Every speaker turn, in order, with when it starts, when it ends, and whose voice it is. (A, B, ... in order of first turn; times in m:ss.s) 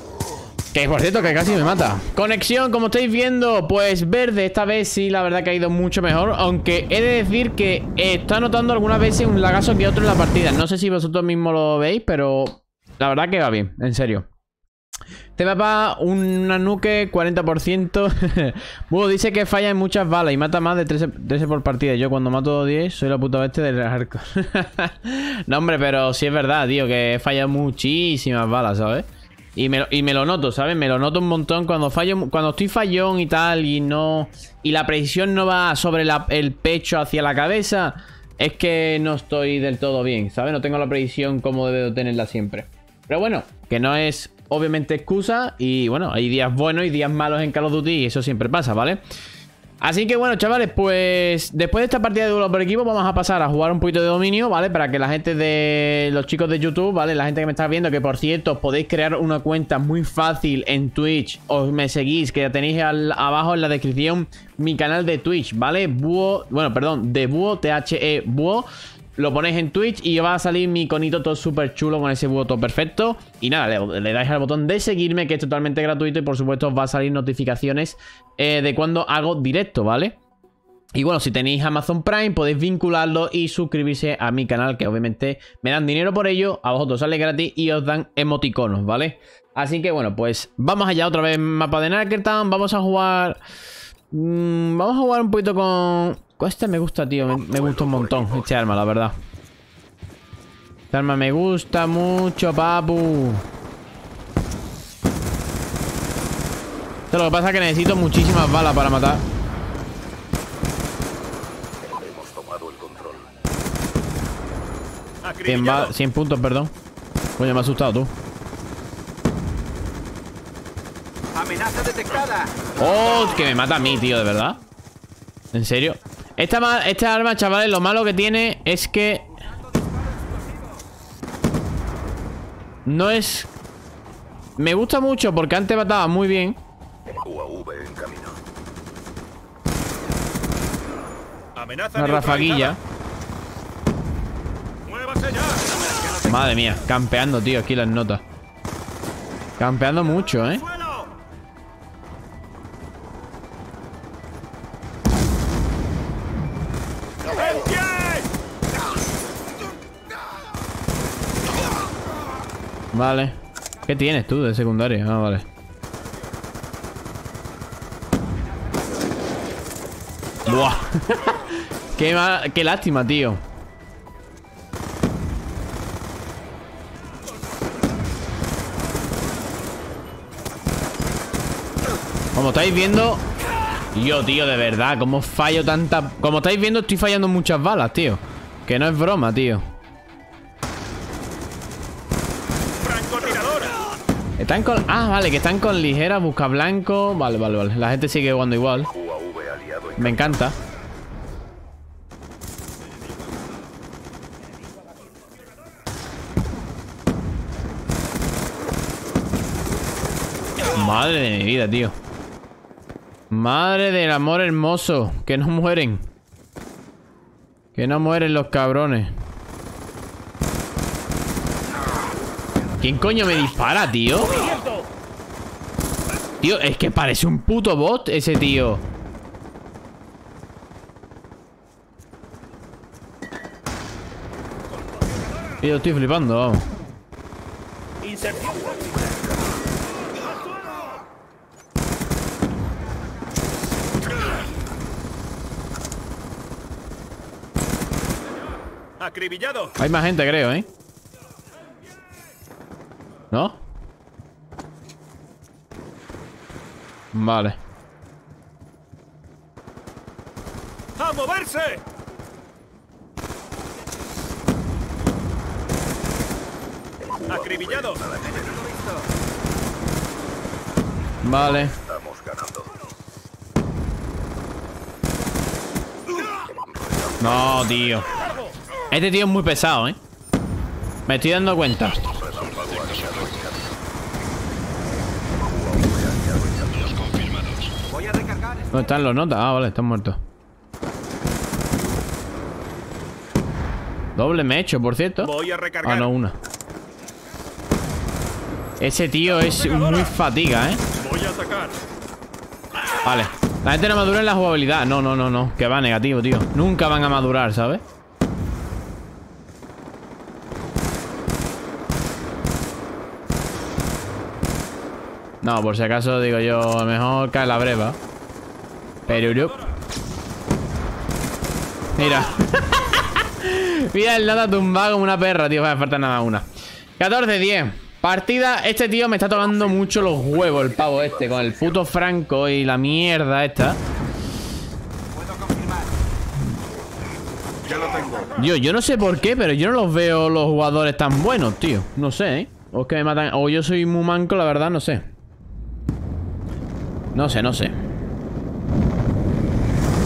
0:00.7-0:14.3 A
0:15.4-0:49.0 A
0:49.8-1:20.2 A
1:20.9-1:33.4 A
1:34.1-1:39.1 A
1:37.2-1:38.5 B
1:40.9-1:43.4 A
1:47.1-1:49.2 A
1:51.9-1:53.3 B
1:55.2-1:55.9 C
1:55.4-1:56.7 A
1:57.4-1:58.1 A
2:01.3-2:02.7 D
2:02.8-2:04.6 A
2:05.5-2:09.3 A
2:12.8-2:13.5 A
2:14.6-2:16.6 A
2:17.2-2:18.4 B
2:21.6-2:22.8 C
2:21.9-2:22.8 A
2:24.8-2:25.8 C
2:25.8-2:26.2 D
2:26.2-2:28.2 A
2:29.6-2:30.6 A
2:30.7-2:31.0 C
2:37.4-2:38.2 C
2:42.9-2:45.4 A
2:50.4-2:53.4 A
3:02.3-3:03.2 A
3:03.9-3:09.6 A
3:12.8-3:13.8 C
3:14.4-3:18.9 A
3:18.9-3:20.5 B
3:20.0-3:20.5 A
3:30.7-3:32.0 A
3:33.3-3:36.1 A
3:37.7-3:39.1 A
3:42.8-3:44.5 A
3:46.4-3:48.8 A
3:55.6-3:56.6 A
3:58.1-3:59.6 B
4:09.0-4:09.7 C
4:09.8-4:10.7 A
4:13.3-4:13.6 A
4:17.1-4:17.6 A
4:21.0-4:21.8 C
4:27.1-4:28.8 B
4:27.3-4:28.0 C
4:31.2-4:31.7 A
4:31.4-4:32.7 B
4:36.4-4:38.2 B
4:37.2-4:38.1 A
4:38.9-4:40.0 A
4:41.1-4:42.0 A
4:42.0-4:43.7 B
4:45.3-4:47.7 B
4:47.9-4:48.9 D
4:48.7-4:50.2 A
4:54.2-4:56.4 A
4:55.2-4:56.1 C
4:58.8-5:00.8 A
4:59.3-5:00.1 C
5:00.9-5:01.8 C
5:03.0-5:07.8 A
5:15.4-5:18.0 A
5:19.1-5:19.6 A
5:19.1-5:19.7 C
5:22.0-5:26.5 A
5:27.0-5:33.8 A
5:29.4-5:31.9 B
5:35.1-5:35.9 D
5:38.4-5:45.1 A
5:47.1-5:47.7 A